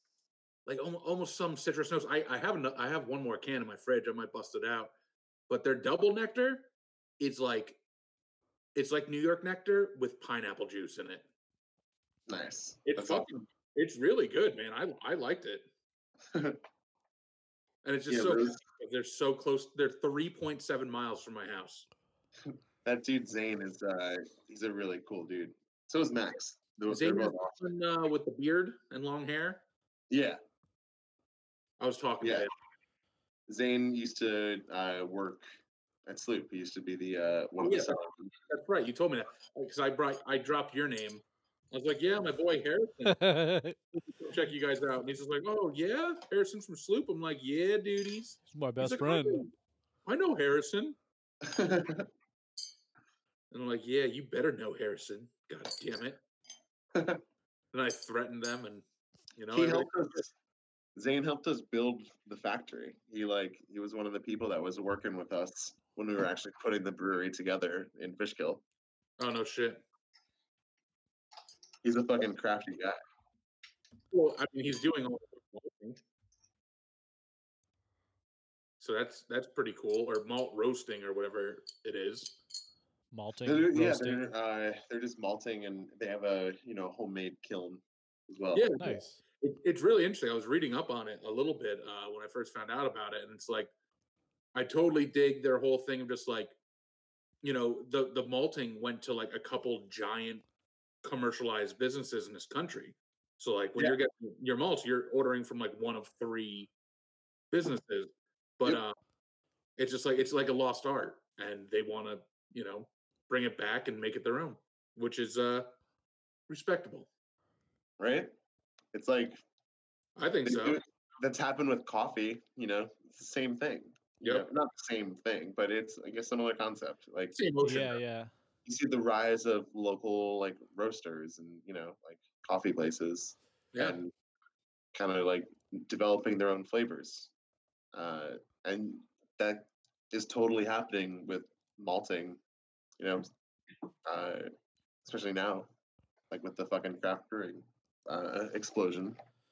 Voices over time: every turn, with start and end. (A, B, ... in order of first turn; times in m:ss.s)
0:00.7-0:04.9 A
0:05.5-0:06.7 A
0:07.2-0:07.8 A
0:08.8-0:11.3 A
0:12.3-0:13.4 B
0:12.9-0:15.7 A
0:16.3-0:16.6 B
0:17.8-0:21.9 A
0:18.1-0:18.6 B
0:22.4-0:27.7 B
0:26.9-0:29.6 A
0:30.1-0:30.4 B
0:31.8-0:32.5 A
0:32.2-0:32.5 B
0:33.5-0:35.5 B
0:36.1-0:38.3 B
0:37.6-0:43.3 A
0:43.0-0:43.8 C
0:44.0-0:49.5 A
0:48.5-0:49.5 C
0:50.0-0:51.0 A
0:51.4-0:52.1 B
0:53.5-0:56.2 A
0:56.9-0:57.2 B
0:57.7-0:58.8 A
0:59.4-0:59.9 A
0:59.5-1:00.3 B
1:01.0-1:08.6 B
1:09.2-1:09.8 A
1:11.8-1:13.0 B
1:14.1-1:16.0 A
1:18.8-1:22.4 A
1:23.1-1:24.3 C
1:23.4-1:28.7 B
1:28.5-1:33.7 A
1:28.8-1:29.2 C
1:34.6-1:36.6 A
1:37.4-1:40.4 A
1:41.0-1:46.7 A
1:47.5-1:49.0 A
1:49.8-1:55.7 A
1:56.5-1:57.1 A
1:58.0-1:58.3 B
1:58.9-1:59.4 B
2:00.2-2:00.8 A
2:00.4-2:07.4 B
2:07.4-2:08.0 A
2:07.6-2:08.3 C
2:08.7-2:14.1 B
2:14.9-2:17.3 B
2:17.9-2:22.4 B
2:23.0-2:23.3 B
2:24.0-2:24.5 B
2:25.0-2:25.7 B
2:26.3-2:29.2 B